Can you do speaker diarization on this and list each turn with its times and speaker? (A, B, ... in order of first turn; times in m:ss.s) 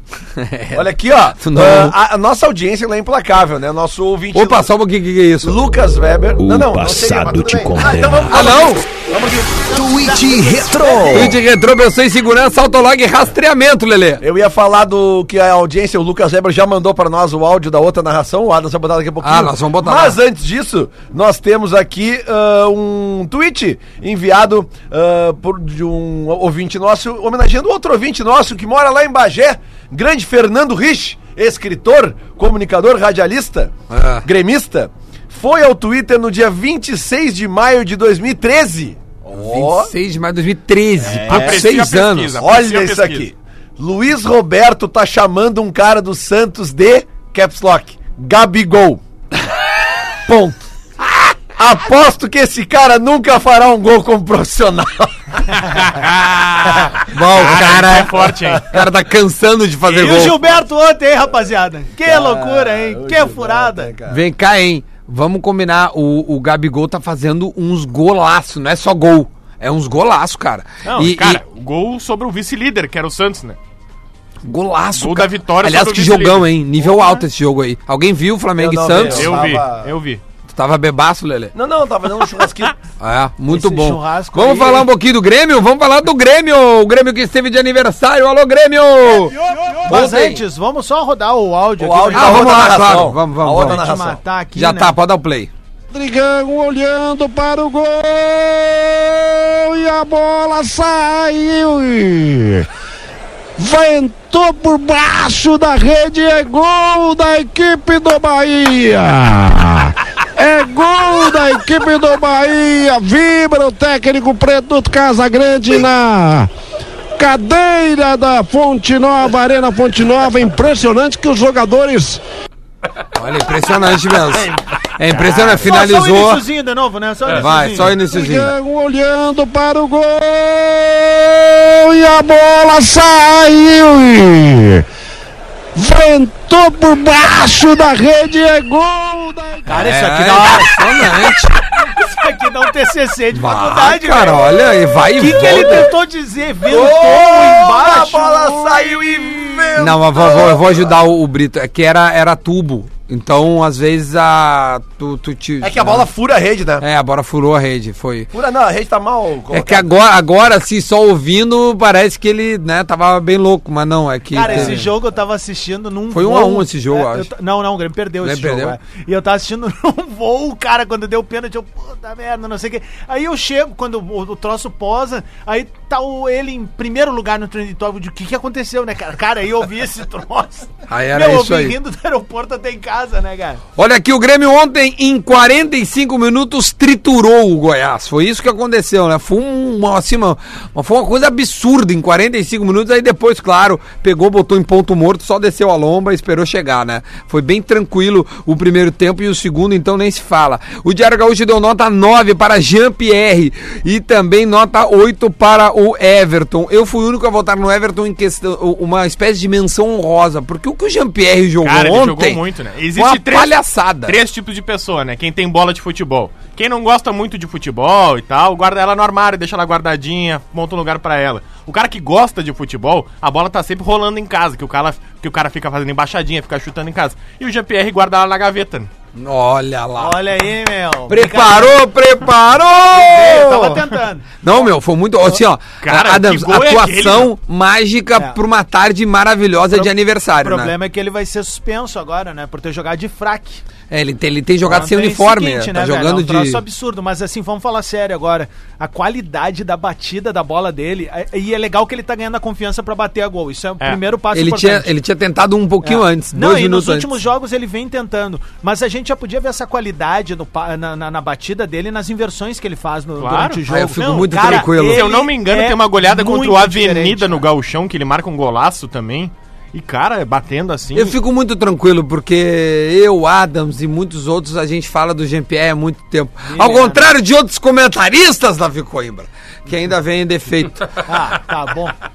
0:00.4-0:02.0 A
0:00.7-0:04.7 B
0:04.3-0:05.6 A
0:05.4-0:09.6 B
0:06.4-0:08.5 C
0:08.3-0:08.8 A
0:09.7-0:11.4 C
0:10.8-0:11.3 B
0:11.1-0:14.2 A
0:14.2-0:39.9 B
0:19.2-0:20.2 A
0:33.9-0:34.3 A
0:39.3-0:42.4 A
0:41.0-0:41.7 B
0:41.2-0:43.3 D
0:42.4-0:49.0 B
0:50.3-0:50.6 B
0:51.6-0:55.6 B
0:55.6-0:58.7 D
0:57.1-1:00.4 A
0:59.9-1:03.9 E
1:02.0-1:04.2 B
1:04.1-1:11.4 A
1:10.8-1:13.6 D
1:14.4-1:19.4 A
1:15.0-1:16.6 D
1:18.6-1:19.9 B
1:19.0-1:20.2 D
1:20.5-1:21.5 A
1:21.5-1:22.8 B
1:23.0-1:29.3 A
1:23.5-1:24.9 E
1:29.5-1:32.8 E
1:29.9-1:30.4 A
1:31.8-1:34.2 B
1:32.1-1:33.8 A
1:33.5-1:35.0 E
1:34.6-1:35.5 A
1:35.9-1:42.7 F
1:43.6-1:56.5 F
1:57.2-2:02.2 F
2:03.2-2:06.4 A
2:05.1-2:05.5 D
2:05.6-2:08.0 E
2:07.3-2:08.5 A
2:08.0-2:14.8 F
2:15.8-2:19.7 F
2:19.7-2:21.1 E
2:19.7-2:21.6 A
2:21.8-2:24.6 E
2:23.3-2:25.9 A
2:25.2-2:28.9 E
2:26.7-2:30.9 B
2:29.8-2:36.1 A
2:35.6-2:36.9 B
2:36.8-2:38.3 A
2:38.3-2:39.9 B
2:39.5-2:44.9 A
2:44.3-3:03.6 E
2:46.1-2:47.3 A
2:48.2-2:48.8 A
3:00.9-3:01.8 A
3:03.8-3:32.4 A
3:31.6-3:48.9 D
3:32.9-3:34.2 A
3:49.2-3:50.2 A
3:50.0-3:51.8 E
3:51.1-3:53.8 A
3:52.9-3:54.7 E
3:54.4-4:00.7 A
3:55.8-3:57.3 D
3:59.7-4:03.6 E
4:03.9-4:06.6 A
4:04.6-4:14.9 E
4:14.3-4:17.1 A
4:15.8-4:27.4 E
4:23.2-4:31.2 D
4:23.7-4:25.1 A
4:30.9-4:41.0 A
4:36.5-4:37.1 E
4:41.1-4:42.0 E